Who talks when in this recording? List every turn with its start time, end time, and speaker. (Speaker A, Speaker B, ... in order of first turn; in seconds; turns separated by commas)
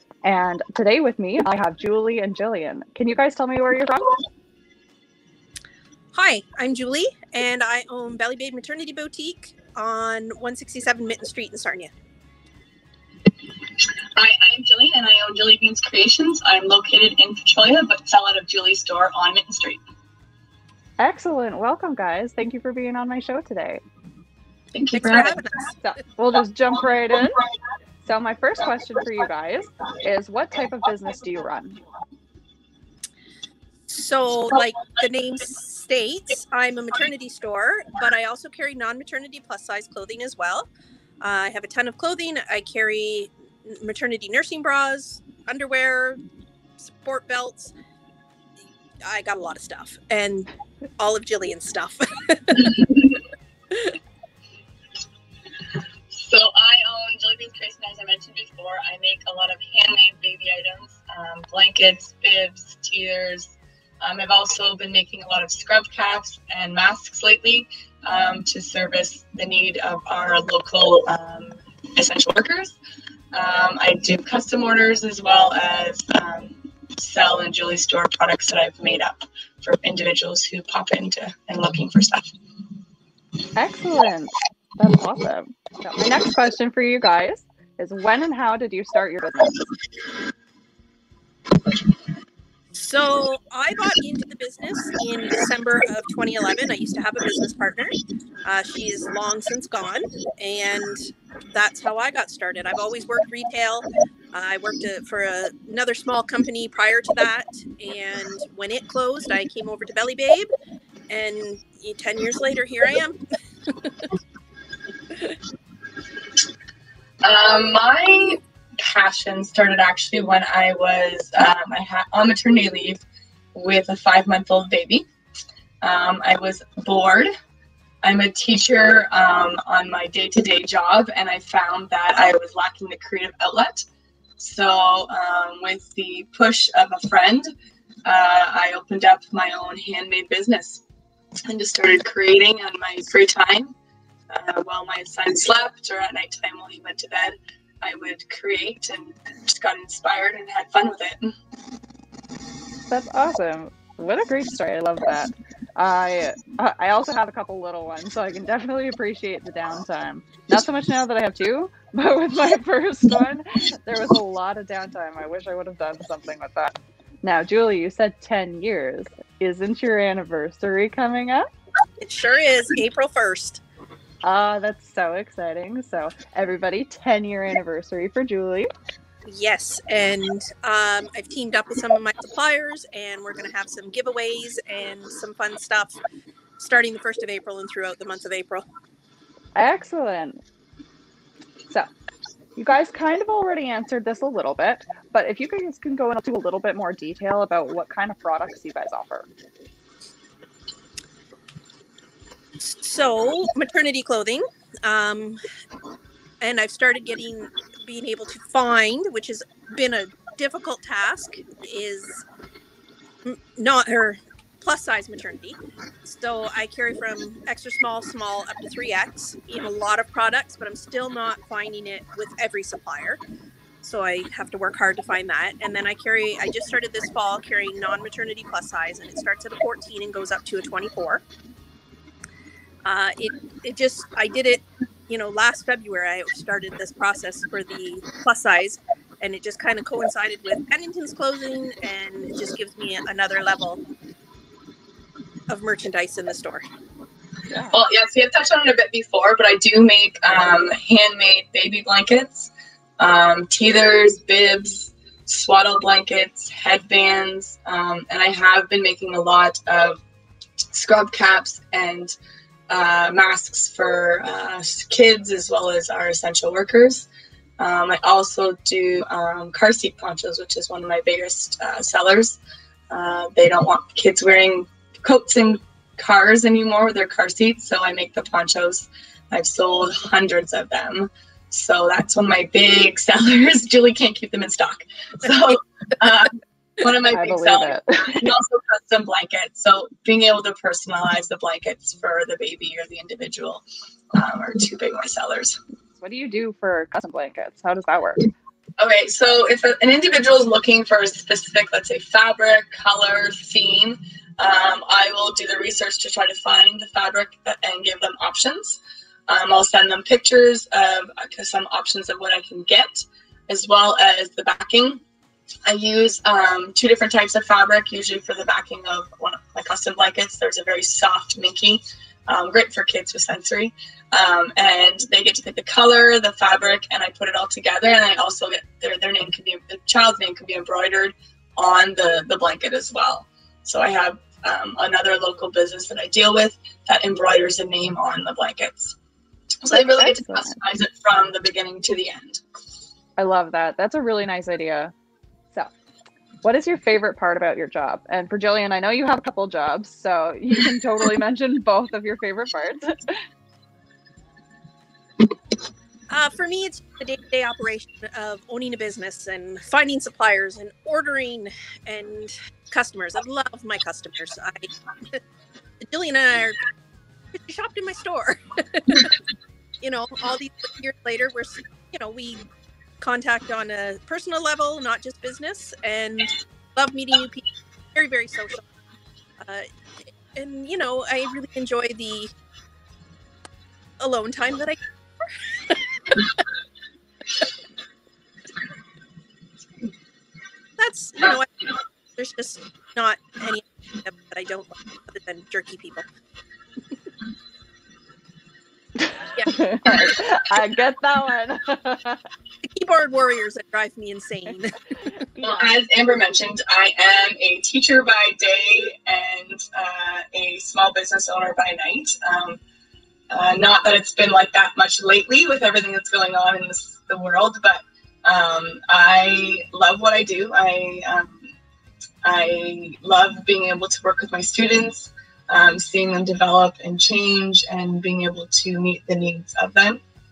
Speaker A: 0.2-4.2, Speaker B: 6.1-11.9, Speaker C: 14.2-19.8, Speaker A: 21.0-23.8, Speaker C: 24.7-25.6, Speaker B: 24.9-25.7, Speaker A: 25.8-27.4, Speaker A: 28.0-31.8, Speaker B: 33.9-40.7, Speaker B: 41.2-46.2, Speaker B: 46.8-47.7, Speaker B: 49.0-53.0, Speaker C: 56.1-72.8, Speaker C: 73.3-82.3, Speaker A: 83.5-89.6, Speaker B: 92.7-110.5, Speaker B: 111.1-113.2, Speaker B: 113.8-114.1, Speaker C: 117.2-123.0, Speaker C: 123.5-125.1, Speaker C: 125.8-127.3, Speaker C: 128.0-133.9, Speaker C: 134.4-137.5, Speaker C: 138.0-140.8, Speaker C: 141.4-143.7, Speaker C: 144.3-151.3, Speaker A: 152.9-171.5, Speaker B: 172.0-173.6, Speaker A: 174.2-178.7, Speaker B: 179.2-186.0, Speaker B: 186.6-188.6, Speaker A: 189.6-190.4, Speaker A: 192.6-199.3, Speaker B: 202.6-205.4, Speaker B: 206.4-212.2, Speaker B: 213.2-223.2, Speaker B: 223.8-231.2, Speaker B: 232.8-243.8, Speaker B: 245.5-246.7, Speaker A: 247.5-247.8, Speaker C: 247.7-260.0, Speaker C: 260.7-262.1, Speaker C: 262.7-267.1, Speaker C: 267.6-272.4, Speaker C: 272.9-295.6, Speaker A: 287.1-288.3, Speaker A: 296.0-298.3, Speaker C: 298.8-315.0, Speaker C: 315.6-338.9, Speaker C: 339.6-342.4, Speaker A: 339.7-340.6, Speaker A: 343.2-344.9, Speaker A: 346.4-353.2, Speaker B: 356.1-365.2, Speaker B: 365.8-366.7, Speaker B: 367.3-369.1, Speaker B: 369.8-372.4, Speaker B: 373.0-378.6, Speaker B: 379.4-379.6, Speaker B: 380.3-382.3, Speaker B: 384.0-384.8, Speaker B: 385.7-386.2, Speaker B: 390.8-391.5, Speaker B: 392.2-396.1, Speaker A: 399.1-402.2, Speaker B: 402.6-404.8, Speaker A: 405.3-405.7, Speaker C: 405.4-412.6, Speaker C: 413.3-421.5, Speaker C: 422.2-430.0